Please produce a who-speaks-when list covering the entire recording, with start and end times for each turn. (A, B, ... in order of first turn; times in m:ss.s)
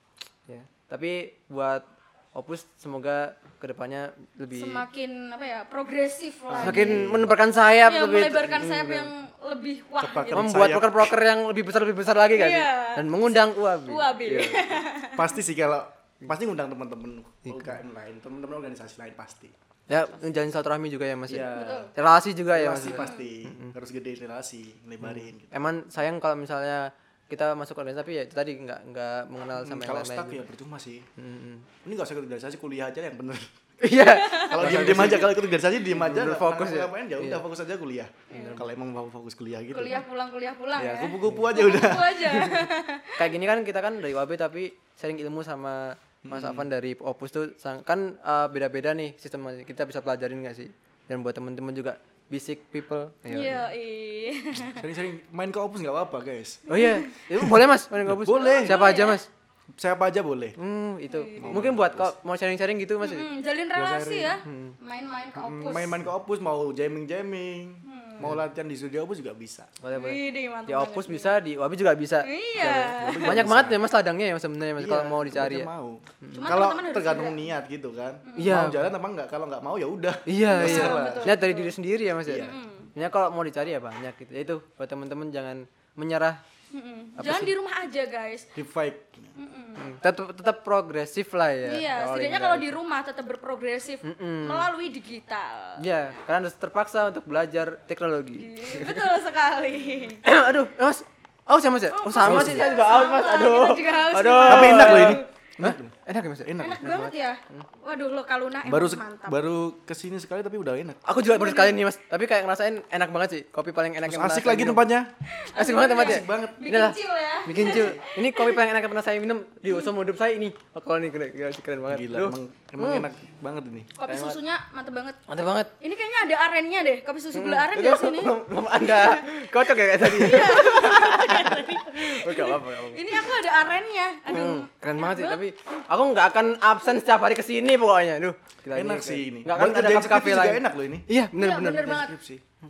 0:00.5-0:04.8 A
0:04.5-0:07.0 B
0:06.5-0:07.4 C
0:06.6-0:09.1 A
0:07.8-0:10.5 B
0:10.0-0:11.1 C
0:10.3-0:14.8 A
0:12.3-0:15.3 B
0:15.1-0:19.5 C
0:17.4-0:17.7 A
0:19.9-0:23.7 A
0:21.3-0:21.9 C
0:21.4-0:21.9 B
0:22.5-0:25.6 C
0:22.8-0:23.3 B
0:25.0-0:30.4 A
0:29.6-0:31.1 C
0:31.2-0:31.7 A
0:31.8-0:33.5 C
0:33.8-0:37.4 A
0:34.1-0:34.7 B
0:34.4-0:40.0 C
0:38.3-0:38.6 B
0:38.3-0:38.6 A
0:39.7-0:43.1 B
0:40.8-0:42.6 C
0:43.2-0:53.6 A
0:46.2-0:46.7 C
0:53.3-0:54.8 B
0:54.6-0:56.7 C
0:56.7-0:59.3 A
0:56.7-0:57.1 B
0:58.0-0:58.8 C
0:58.4-0:59.2 B
0:59.8-1:00.6 C
1:00.6-1:03.3 A
1:01.1-1:01.6 B
1:01.4-1:02.1 C
1:03.0-1:06.0 B
1:03.7-1:04.4 C
1:04.4-1:04.7 A
1:05.4-1:09.7 C
1:07.8-1:08.3 B
1:09.8-1:15.7 A
1:09.9-1:11.4 B
1:12.2-1:13.5 B
1:12.9-1:13.9 C
1:14.8-1:21.4 C
1:16.2-1:16.5 A
1:16.3-1:17.5 B
1:18.2-1:18.6 B
1:18.4-1:18.9 A
1:20.3-1:26.4 A
1:20.5-1:21.7 B
1:22.2-1:22.6 C
1:22.4-1:22.9 B
1:26.7-1:28.5 B
1:27.2-1:27.5 A
1:28.6-1:29.3 C
1:29.3-1:29.9 B
1:29.8-1:32.8 A
1:31.6-1:35.8 B
1:34.0-1:34.7 A
1:35.8-1:39.0 A
1:38.4-1:40.2 B
1:40.2-1:47.6 A
1:41.9-1:45.3 B
1:42.2-1:42.7 C
1:44.4-1:46.9 C
1:46.6-1:49.4 B
1:48.6-1:51.0 C
1:51.0-1:54.9 A
1:51.2-1:51.8 B
1:54.0-1:55.1 C
1:55.4-1:58.6 B
1:55.5-2:03.1 A
1:55.9-1:56.6 C
2:01.9-2:04.0 C
2:04.0-2:05.2 B
2:04.0-2:04.4 A
2:05.3-2:05.7 A
2:05.8-2:09.2 B
2:07.3-2:13.3 A
2:10.1-2:15.4 B
2:14.3-2:22.0 A
2:18.7-2:21.1 C
2:21.3-2:22.2 B
2:21.8-2:22.4 C